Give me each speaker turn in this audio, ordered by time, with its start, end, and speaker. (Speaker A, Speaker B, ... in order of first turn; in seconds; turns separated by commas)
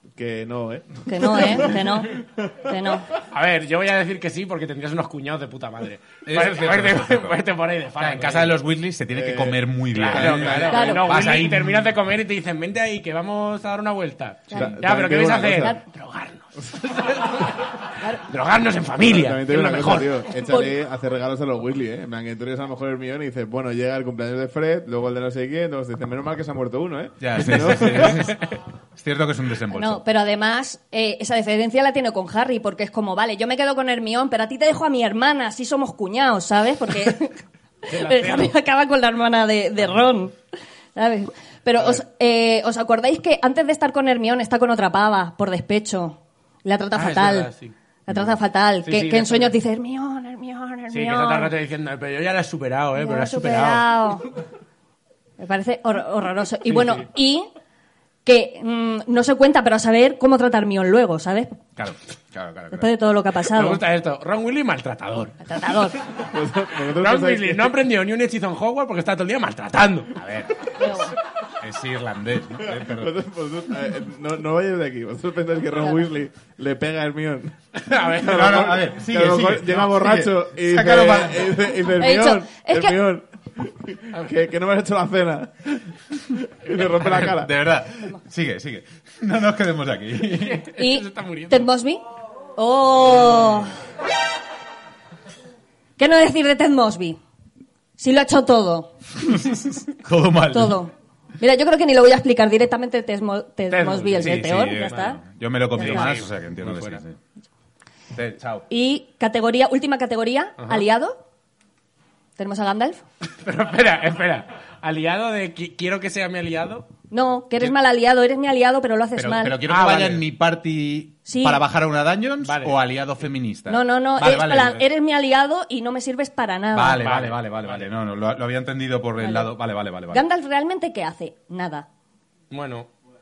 Speaker A: 0.2-2.7, Speaker B: 1.1-3.1, Speaker C: 3.3-8.6, Speaker D: 6.3-7.4, Speaker D: 8.0-11.8, Speaker A: 9.1-11.0, Speaker C: 9.9-20.3, Speaker B: 10.7-11.0, Speaker B: 14.5-14.7, Speaker A: 14.5-15.8, Speaker B: 15.6-15.8, Speaker B: 18.0-18.3, Speaker A: 19.0-28.3, Speaker D: 27.2-30.0, Speaker B: 29.7-37.4, Speaker B: 37.9-40.4, Speaker C: 37.9-38.5, Speaker B: 41.0-47.5, Speaker C: 46.9-47.8, Speaker B: 48.1-51.5, Speaker C: 48.8-49.5, Speaker C: 50.9-53.9, Speaker B: 53.0-54.3, Speaker B: 55.4-57.5, Speaker C: 56.7-57.0, Speaker B: 58.3-61.6, Speaker D: 61.8-62.9, Speaker B: 62.7-63.8, Speaker C: 63.5-65.4, Speaker B: 65.4-66.0, Speaker A: 66.2-67.8, Speaker C: 66.9-70.1, Speaker D: 70.2-73.2, Speaker B: 70.8-71.1, Speaker A: 72.6-87.5, Speaker C: 77.8-78.8, Speaker D: 78.2-81.6, Speaker B: 81.9-83.0, Speaker D: 87.0-90.7, Speaker C: 90.3-91.7, Speaker B: 90.7-92.0, Speaker B: 92.5-93.8, Speaker B: 96.0-97.2, Speaker B: 98.0-98.9, Speaker D: 99.3-100.8, Speaker B: 100.5-105.2, Speaker C: 103.7-105.0, Speaker D: 104.2-107.2, Speaker B: 105.7-106.1, Speaker C: 105.8-107.0, Speaker D: 108.1-108.7, Speaker B: 108.7-111.2, Speaker B: 112.4-113.0, Speaker C: 113.4-116.9, Speaker B: 117.1-119.6, Speaker D: 119.2-124.8, Speaker C: 119.7-120.3, Speaker B: 121.3-121.6, Speaker C: 122.4-122.8, Speaker B: 123.7-127.1, Speaker D: 126.7-130.2, Speaker C: 127.0-127.9, Speaker B: 129.2-129.5, Speaker B: 130.1-131.9, Speaker C: 132.5-132.9